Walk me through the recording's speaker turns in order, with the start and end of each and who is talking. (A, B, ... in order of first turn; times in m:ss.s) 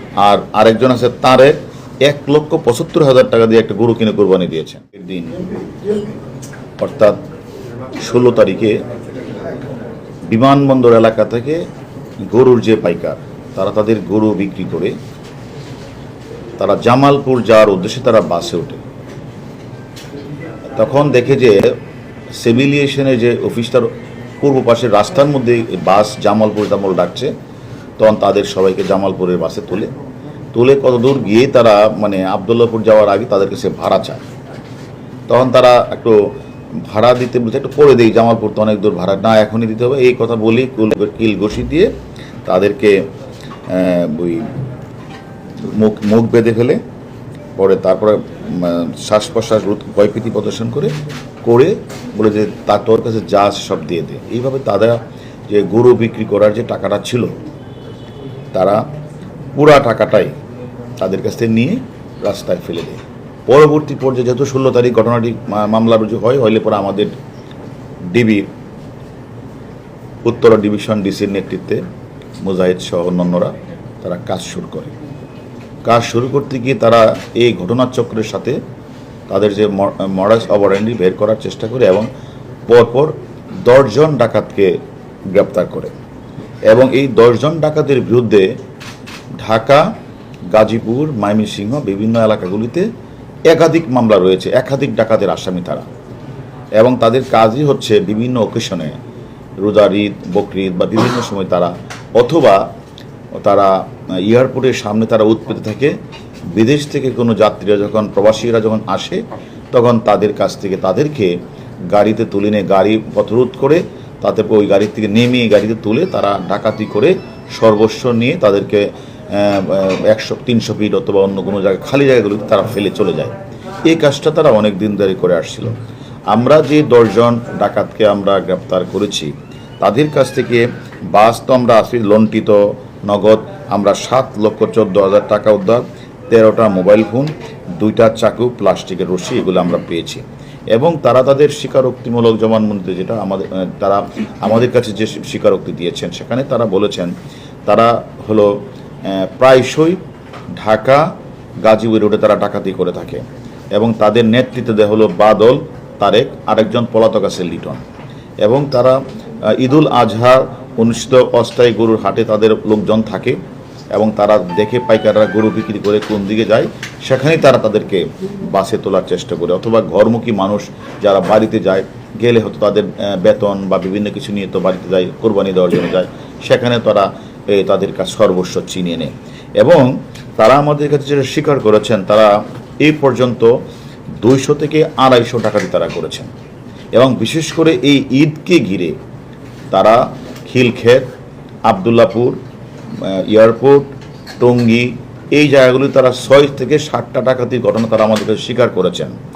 0:00.2-0:05.4 A
0:06.8-0:07.2 A
0:08.0-0:08.8 A
0:10.3-0:11.6 A
0:12.3-0:15.0 A
0:16.6-0:18.8 A
0:20.7-0:21.8 A
0:22.4-0:23.9 A
0:24.4-0:27.3 A
0:28.0-0:29.9 A
0:30.5-0:34.2 A
0:35.3-0:36.2 A
0:36.9-0:41.9 A
0:42.4-0:43.0 A
0:43.7-0:44.5 A
0:45.6-0:46.8 A
0:47.6-0:57.3 A
0:58.5-0:58.8 A
0:59.5-1:00.3 A
1:01.0-1:07.1 A
1:08.1-1:08.5 A
1:10.2-1:11.8 A
1:12.4-1:14.9 A
1:15.8-1:18.6 A
1:19.3-1:22.1 A
1:22.7-1:24.8 A
1:25.3-1:25.9 A
1:26.7-1:28.5 A
1:29.4-1:29.9 A
1:30.5-1:32.9 A
1:33.5-1:35.8 A
1:36.8-1:39.0 A
1:39.6-1:42.6 A
1:43.3-1:45.9 A
1:46.5-1:51.4 A
1:51.9-2:05.8 A
2:06.3-2:27.1 A
2:27.7-2:30.0 A
2:30.6-2:31.1 A
2:31.6-2:37.8 A
2:38.4-2:43.4 A
2:43.9-3:02.3 A
3:02.8-3:03.5 A
3:04.2-3:06.3 A
3:06.9-3:09.0 A
3:09.7-3:11.1 A
3:11.7-3:12.4 A
3:12.9-3:19.2 A